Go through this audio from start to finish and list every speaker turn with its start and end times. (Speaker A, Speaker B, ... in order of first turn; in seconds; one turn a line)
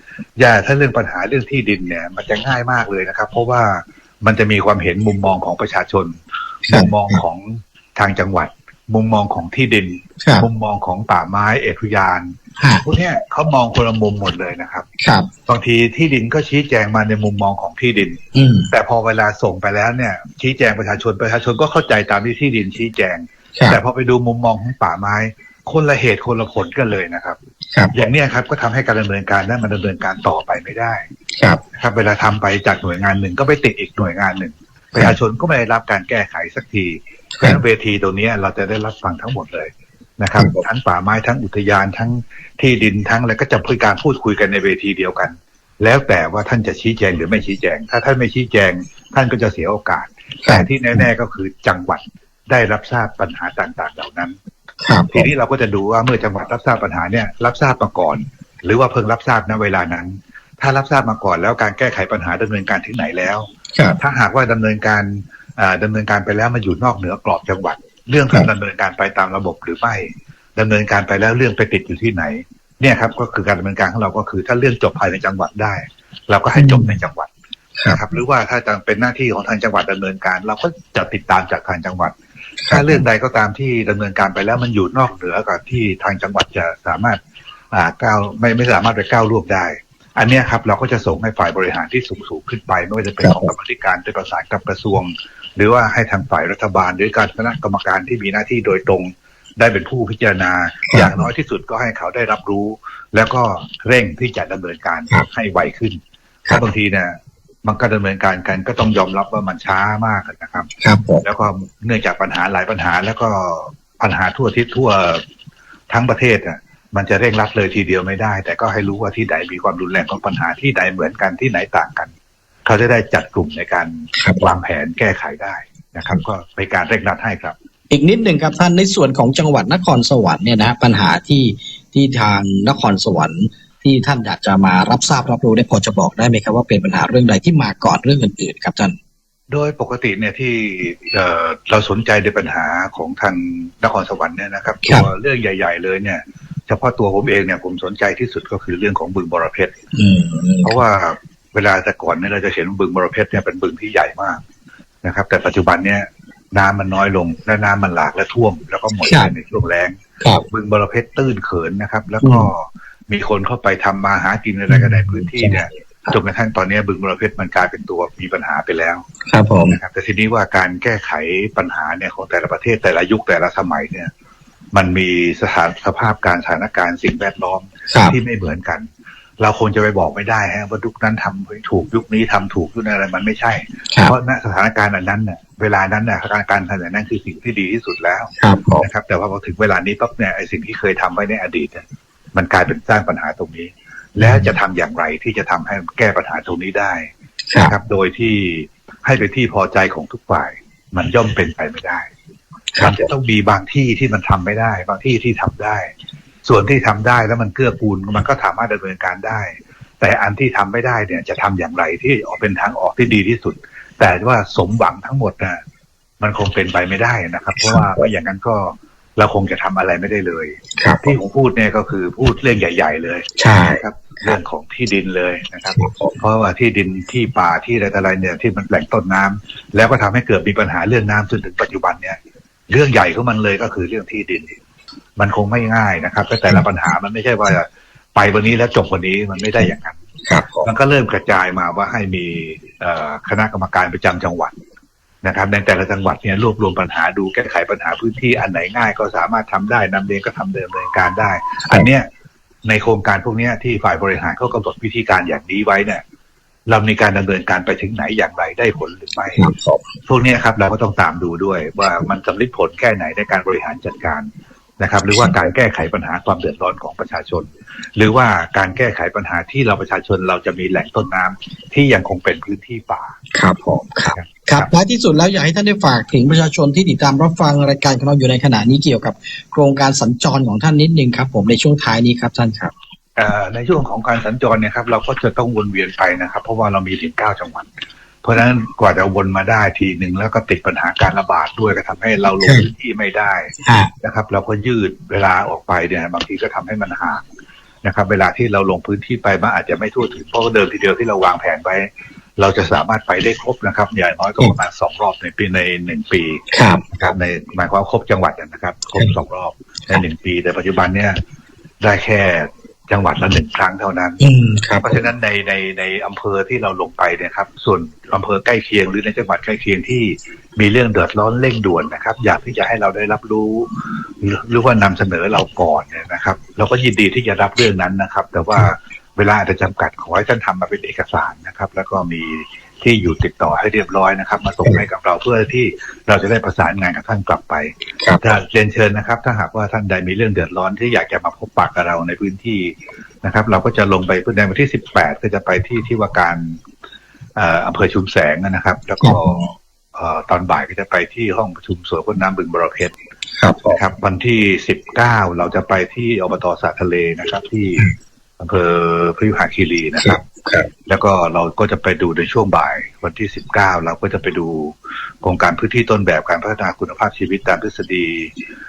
Speaker A: 0.4-14.8
Speaker B: 6.7-7.2
Speaker B: 10.2-10.5
Speaker B: 12.6-12.8
Speaker B: 15.0-15.3
Speaker A: 15.5-27.4
Speaker B: 18.3-18.7
Speaker B: 23.6-23.8
Speaker A: 27.9-31.0
Speaker B: 31.3-31.6
Speaker A: 31.8-54.4
Speaker B: 40.4-40.6
Speaker B: 50.4-51.0
Speaker B: 54.8-55.3
Speaker A: 55.1-77.3
Speaker B: 63.7-64.0
Speaker B: 76.5-76.9
Speaker A: 77.9-82.1
Speaker B: 82.6-83.0
Speaker A: 82.7-87.2
Speaker A: 87.7-110.7
Speaker B: 93.2-93.5
Speaker B: 100.9-101.2
Speaker B: 110.8-111.2
Speaker A: 111.2-115.2
Speaker A: 115.9-122.1
Speaker A: 122.7-127.5
Speaker B: 124.1-124.5
Speaker B: 127.9-138.9
Speaker A: 139.5-149.7
Speaker B: 149.9-150.7
Speaker A: 150.6-154.4
Speaker A: 155.0-159.9
Speaker B: 159.1-159.3
Speaker A: 160.5-169.0
Speaker B: 162.2-162.5
Speaker B: 164.7-166.2
Speaker B: 169.3-169.8
Speaker A: 169.7-174.1
Speaker A: 174.7-178.9
Speaker B: 177.9-178.2
Speaker A: 179.4-197.1
Speaker B: 188.4-188.9
Speaker B: 194.2-194.5
Speaker B: 197.5-197.7
Speaker A: 197.6-202.1
Speaker B: 202.7-203.1
Speaker A: 202.8-205.9
Speaker A: 206.4-215.6
Speaker A: 216.2-232.2
Speaker B: 217.6-218.1
Speaker B: 220.8-221.2
Speaker B: 223.4-224.4
Speaker B: 225.8-226.2
Speaker A: 232.7-234.5
Speaker A: 235.2-240.0
Speaker B: 240.2-240.7
Speaker A: 240.6-244.5
Speaker A: 245.2-252.1
Speaker A: 252.6-256.0
Speaker A: 256.7-259.4
Speaker B: 259.4-259.9
Speaker A: 260.1-264.3
Speaker A: 264.8-273.2
Speaker B: 273.3-282.7
Speaker A: 274.1-274.7
Speaker A: 283.2-287.7
Speaker A: 288.2-297.2
Speaker B: 292.4-292.7
Speaker B: 293.6-293.9
Speaker A: 297.8-306.4
Speaker B: 306.5-307.1
Speaker A: 307.0-311.2
Speaker A: 311.8-314.2
Speaker B: 314.2-315.0
Speaker A: 314.8-346.6
Speaker A: 347.4-352.9
Speaker B: 349.0-349.4
Speaker B: 353.4-353.8
Speaker A: 353.7-357.9
Speaker A: 358.4-360.2
Speaker B: 360.0-360.7
Speaker A: 360.9-368.3